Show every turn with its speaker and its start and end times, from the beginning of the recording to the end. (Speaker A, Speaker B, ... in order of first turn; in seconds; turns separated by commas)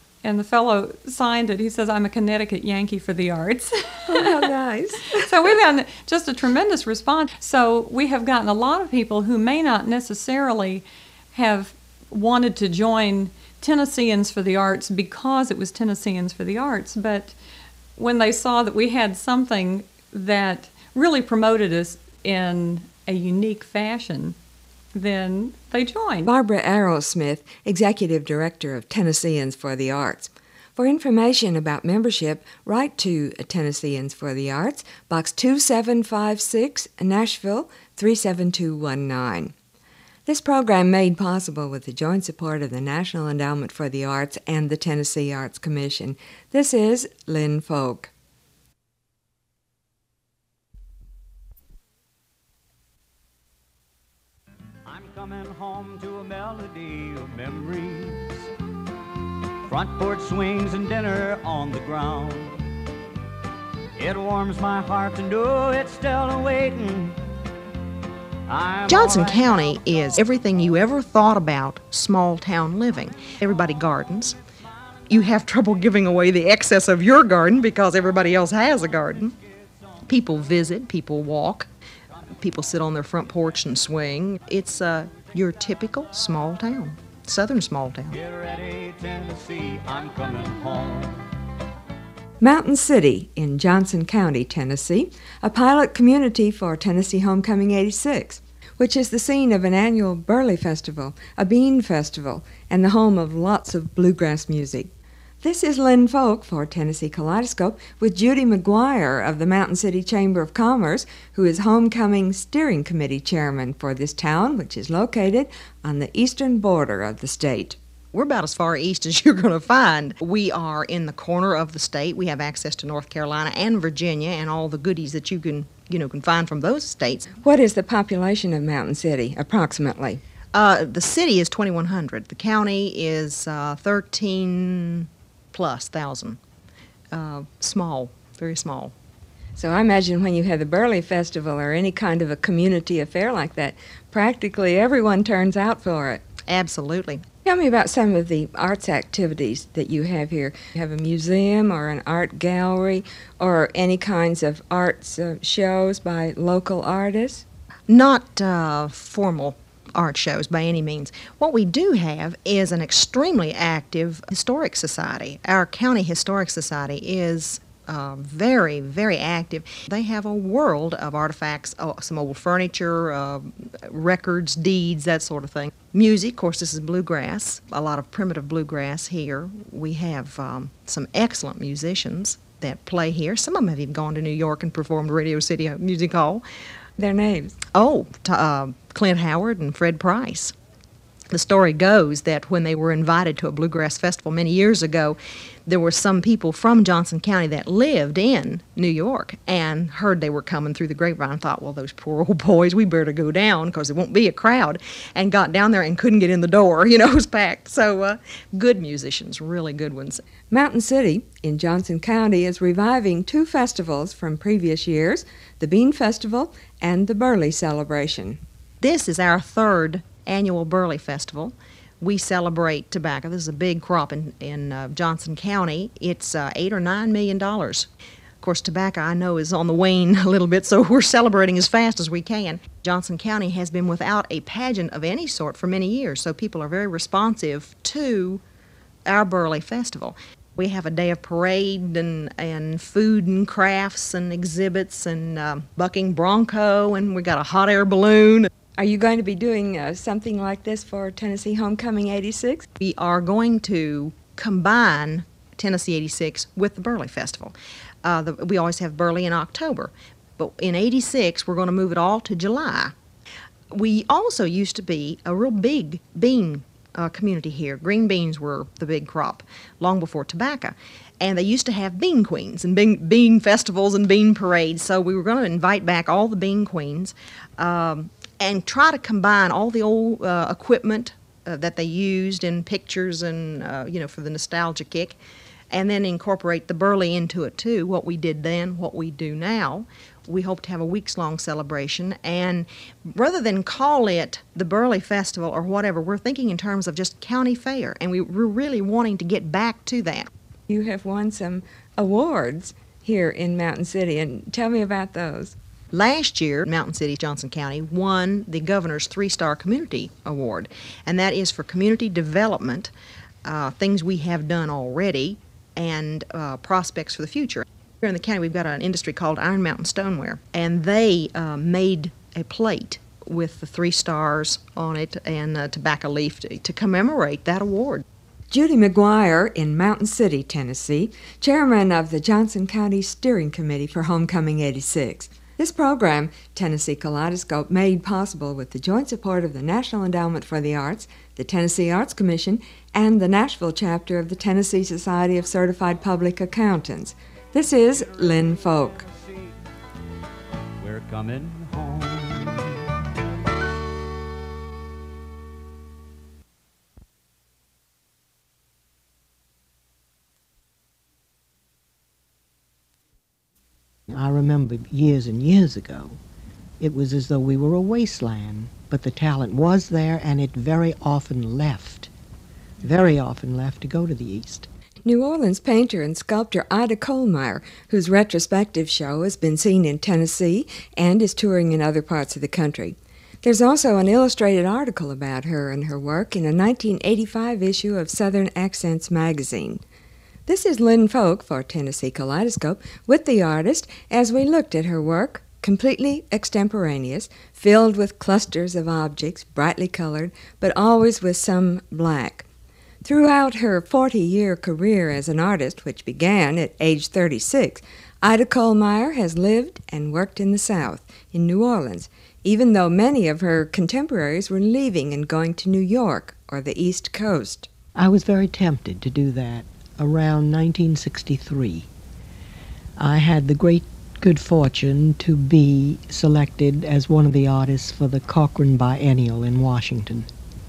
Speaker A: 0.2-4.4, Speaker B: 4.1-5.3, Speaker A: 5.1-17.3, Speaker A: 17.9-24.4, Speaker A: 24.9-26.3, Speaker B: 26.2-39.5, Speaker B: 40.2-48.1, Speaker C: 54.9-58.5, Speaker C: 59.7-62.6, Speaker C: 64.0-67.2, Speaker C: 68.5-69.8, Speaker D: 68.9-74.4, Speaker D: 75.1-79.3, Speaker D: 80.1-81.7, Speaker D: 82.4-88.2, Speaker C: 88.1-91.2, Speaker B: 92.4-104.9, Speaker B: 105.4-117.8, Speaker D: 118.1-127.3, Speaker B: 127.4-130.2, Speaker D: 130.5-136.4, Speaker D: 137.1-138.9, Speaker B: 139.6-146.2, Speaker D: 146.5-147.2, Speaker B: 147.4-157.4, Speaker D: 157.9-186.4, Speaker B: 187.0-187.6, Speaker D: 187.7-190.5, Speaker D: 191.3-210.2, Speaker B: 210.5-218.4, Speaker D: 218.8-227.9, Speaker D: 228.4-238.4, Speaker D: 239.1-248.5, Speaker B: 248.8-252.7, Speaker D: 252.8-262.9, Speaker D: 263.7-285.2, Speaker D: 285.7-300.3, Speaker B: 300.7-305.5, Speaker D: 305.9-312.9, Speaker D: 313.4-328.0, Speaker B: 328.5-349.0, Speaker C: 349.1-349.4, Speaker C: 350.8-352.7, Speaker E: 364.1-366.2, Speaker E: 366.8-372.1, Speaker E: 372.8-374.7, Speaker B: 375.0-389.8, Speaker B: 390.4-402.4, Speaker B: 403.0-417.7, Speaker E: 417.9-421.9, Speaker E: 423.0-430.3